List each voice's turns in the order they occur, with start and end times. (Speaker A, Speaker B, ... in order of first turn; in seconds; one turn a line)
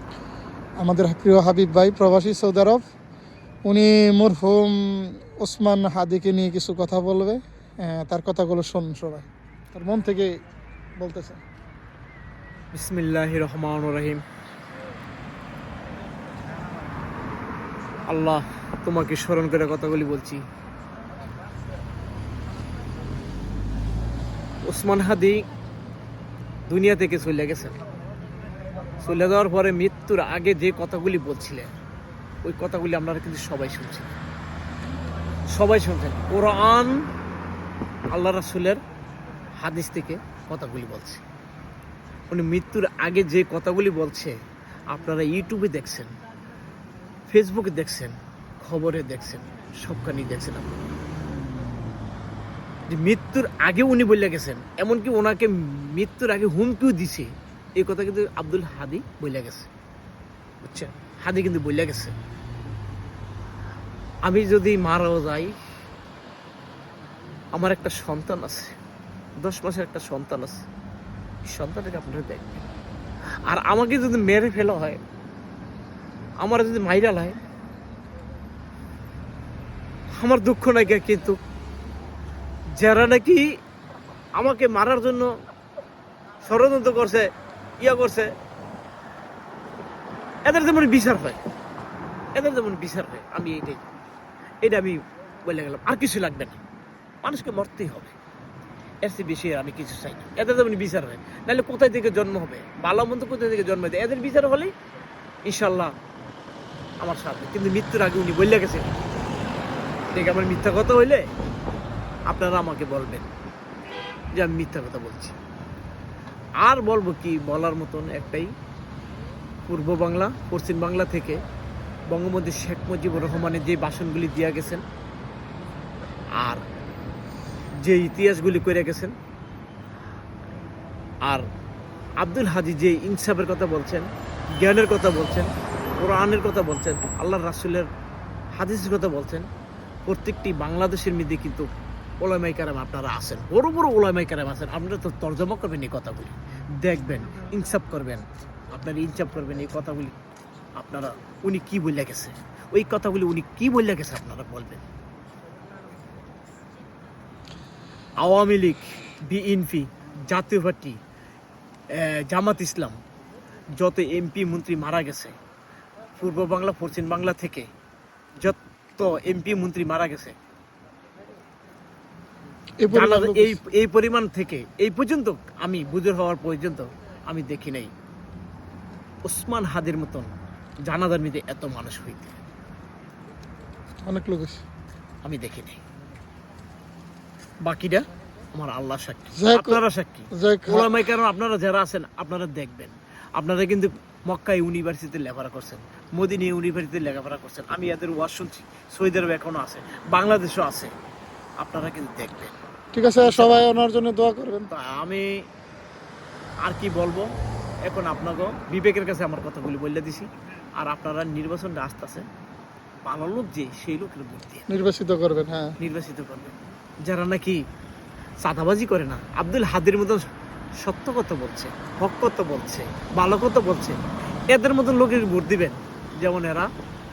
Speaker A: 0.8-2.8
Speaker A: 3.6-10.3
Speaker A: 11.0-11.4
Speaker B: 12.7-14.2
Speaker B: 18.1-20.4
Speaker B: 24.6-25.4
Speaker B: 26.7-27.8
Speaker B: 29.0-31.7
Speaker B: 32.4-34.1
Speaker B: 35.5-37.0
Speaker B: 38.1-38.8
Speaker B: 39.6-41.2
Speaker B: 42.3-44.3
Speaker B: 44.9-46.1
Speaker B: 47.3-50.7
Speaker B: 52.9-59.7
Speaker B: 60.6-62.1
Speaker B: 64.2-65.5
Speaker B: 67.5-68.8
Speaker B: 69.4-70.6
Speaker B: 71.5-72.7
Speaker B: 73.5-75.0
Speaker B: 76.4-77.4
Speaker B: 80.2-81.4
Speaker B: 82.7-83.5
Speaker B: 84.4-85.3
Speaker B: 86.4-87.3
Speaker B: 87.8-88.3
Speaker B: 90.5-91.4
Speaker B: 92.3-93.8
Speaker B: 94.6-96.6
Speaker B: 97.2-98.1
Speaker B: 99.0-104.7
Speaker B: 105.5-105.9
Speaker B: 107.0-108.9
Speaker B: 110.1-111.3
Speaker B: 112.3-113.3
Speaker B: 114.3-115.3
Speaker B: 116.6-118.5
Speaker B: 119.7-121.4
Speaker B: 122.1-124.8
Speaker B: 126.3-126.6
Speaker B: 127.8-129.2
Speaker B: 132.2-137.9
Speaker B: 138.6-139.5
Speaker B: 140.1-141.7
Speaker B: 142.2-150.2
Speaker B: 150.8-154.8
Speaker B: 158.2-161.0
Speaker B: 161.9-162.9
Speaker B: 163.8-165.3
Speaker B: 166.2-167.7
Speaker B: 168.4-170.3
Speaker A: 172.8-173.6
Speaker B: 172.9-177.9
Speaker B: 179.2-180.3
Speaker B: 180.8-182.3
Speaker A: 183.9-184.6
Speaker B: 185.2-185.8
Speaker B: 187.6-200.9
Speaker A: 189.3-190.9
Speaker B: 201.6-202.6
Speaker A: 202.9-204.7
Speaker B: 203.2-203.7
Speaker B: 204.7-205.3
Speaker B: 206.6-207.3
Speaker B: 207.8-212.2
Speaker B: 213.1-214.7
Speaker A: 214.7-215.7
Speaker B: 215.8-216.5
Speaker B: 217.0-217.6
Speaker B: 218.4-220.2
Speaker B: 220.8-226.7